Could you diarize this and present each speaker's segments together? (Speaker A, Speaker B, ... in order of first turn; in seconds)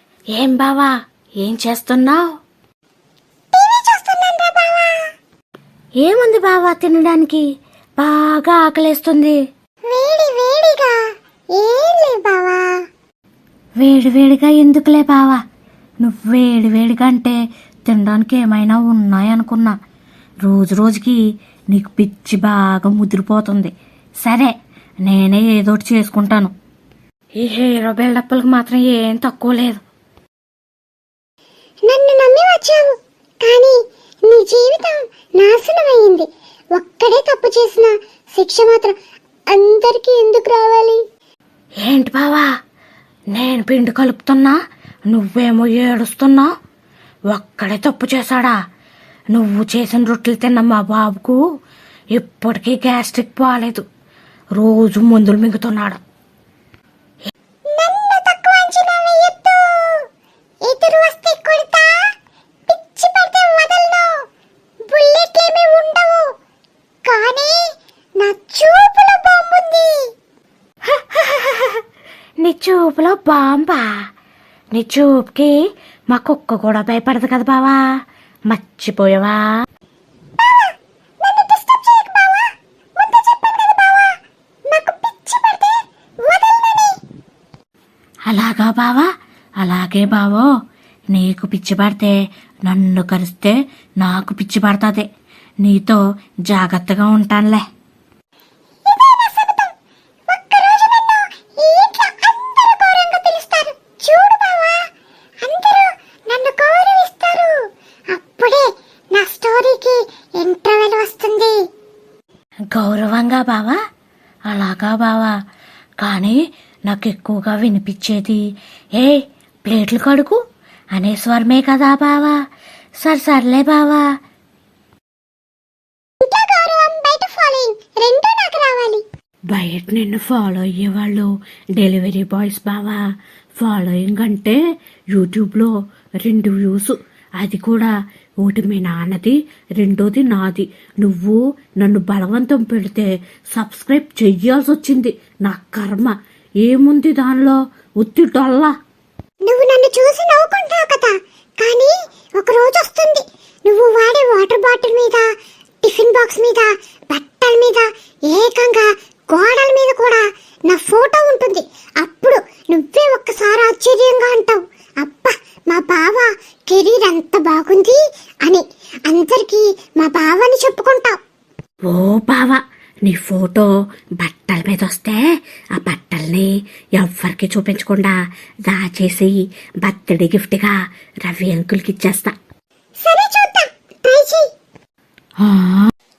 Speaker A: 0.3-2.3, 6.0-7.4, 8.0-9.4, 13.8-15.4, 16.0-19.8, 20.4-21.2, 21.7-23.7, 24.2-24.5, 25.1-26.5, 27.4-29.8, 41.8-42.5, 43.3-44.6, 45.1-46.5, 47.3-48.6, 49.3-51.4, 52.1-53.9, 54.5-56.0, 70.9-71.8, 72.4-73.9, 74.7-77.9, 78.5-79.5, 88.3-89.1, 89.6-90.5, 91.1-95.1, 95.6-97.6, 112.7-113.8, 114.5-115.3, 116.0-118.4, 119.0-120.4, 120.9-122.4, 123.0-124.1, 129.5-133.0, 133.6-134.6, 135.1-148.7, 171.9-175.2, 175.8-182.3, 185.4-185.9
Speaker B: 3.5-5.0, 9.9-10.9, 11.6-12.7, 31.9-32.9, 33.4-33.8, 34.3-38.9, 39.5-41.0, 57.7-60.0, 60.6-61.9, 62.7-64.1, 64.9-66.3, 67.0-67.6, 68.2-70.0, 80.4-84.1, 84.7-87.0, 98.9-99.7, 100.3-104.8, 105.4-107.6, 108.1-111.6, 126.2-129.0, 149.4-155.3, 155.8-171.2, 183.0-184.5